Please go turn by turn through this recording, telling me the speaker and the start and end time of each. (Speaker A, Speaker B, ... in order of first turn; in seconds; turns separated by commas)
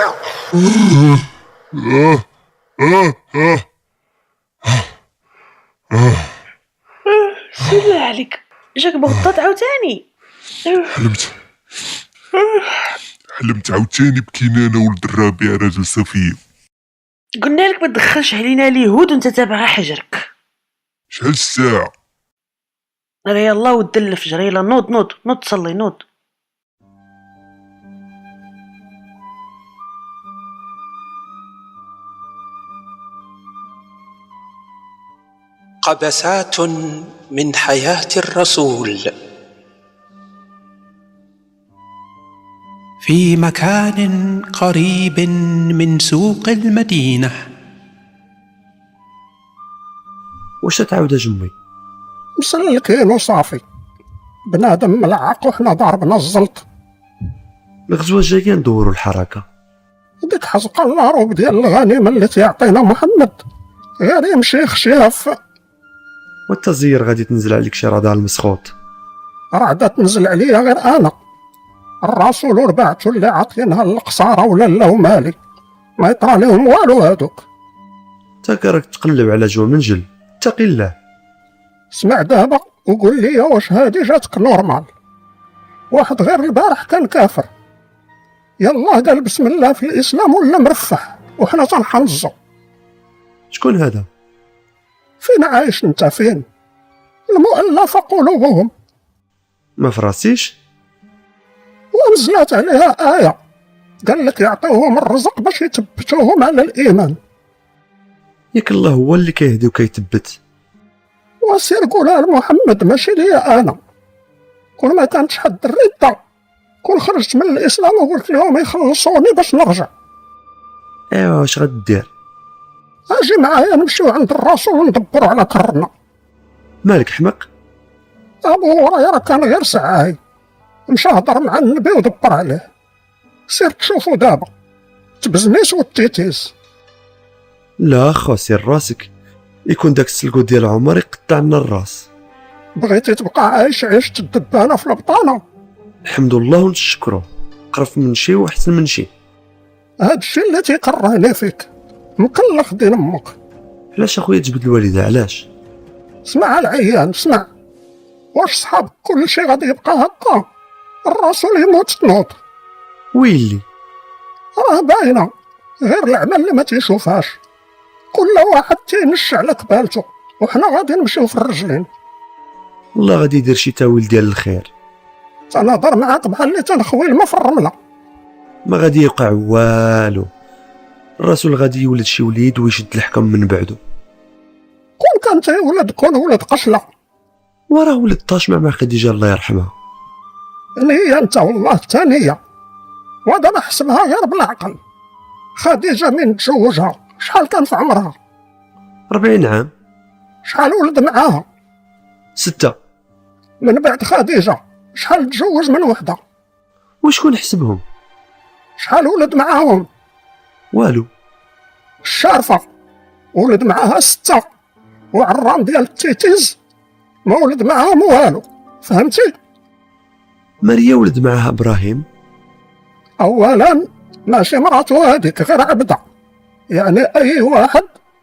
Speaker A: 0.6-1.2, Speaker A: 1.7-2.2, Speaker A: 2.8-3.6, Speaker A: 5.9-6.3, Speaker B: 7.1-10.1, Speaker B: 10.7-10.9, Speaker A: 10.9-11.3, Speaker B: 12.3-12.8, Speaker A: 13.4-16.4, Speaker B: 17.4-20.3, Speaker A: 21.1-21.9, Speaker B: 23.3-26.0, Speaker C: 35.8-39.1, Speaker C: 43.0-47.4, Speaker D: 50.6-51.5, Speaker E: 52.4-53.6, Speaker E: 54.5-56.6, Speaker D: 57.9-59.4, Speaker E: 60.2-63.4, Speaker E: 64.0-65.3, Speaker D: 66.5-68.7, Speaker E: 69.5-71.1, Speaker E: 72.0-75.4, Speaker E: 76.0-77.4, Speaker D: 78.4-80.9, Speaker E: 81.9-84.9, Speaker E: 85.9-87.5, Speaker E: 88.6-92.3, Speaker D: 93.5-94.1, Speaker E: 95.2-96.4, Speaker E: 97.3-98.7, Speaker D: 99.8-100.5, Speaker E: 101.9-103.3, Speaker E: 104.0-107.2, Speaker D: 108.5-110.4, Speaker E: 111.4-113.8, Speaker E: 114.8-116.2, Speaker E: 116.8-119.9, Speaker D: 121.1-122.1, Speaker E: 123.1-125.9, Speaker D: 126.8-127.5, Speaker E: 128.4-130.2, Speaker E: 130.9-132.7, Speaker E: 133.5-134.5, Speaker E: 135.2-136.5, Speaker D: 137.8-139.1, Speaker D: 139.7-142.1, Speaker E: 142.8-145.4, Speaker D: 146.0-149.1, Speaker E: 150.0-151.7, Speaker E: 152.2-153.3, Speaker D: 153.9-155.5, Speaker E: 156.2-157.4, Speaker E: 158.3-160.4, Speaker E: 161.1-162.3, Speaker D: 163.1-163.6, Speaker E: 164.6-165.3, Speaker E: 165.8-167.4, Speaker E: 168.1-171.9, Speaker D: 172.9-174.7, Speaker E: 175.5-177.7, Speaker D: 178.7-180.3, Speaker D: 181.2-183.8, Speaker E: 185.0-186.8, Speaker D: 187.7-189.7, Speaker E: 190.8-192.4, Speaker E: 193.3-194.8, Speaker E: 195.6-198.2, Speaker D: 199.1-199.7, Speaker E: 200.4-201.4, Speaker D: 202.3-202.8, Speaker E: 203.6-206.2, Speaker D: 207.0-207.8, Speaker E: 208.8-209.8, Speaker D: 210.7-211.1, Speaker E: 212.0-212.6, Speaker E: 213.3-214.4, Speaker E: 215.1-216.6, Speaker E: 217.2-219.3, Speaker D: 220.6-222.0, Speaker E: 223.2-226.0, Speaker E: 226.7-227.9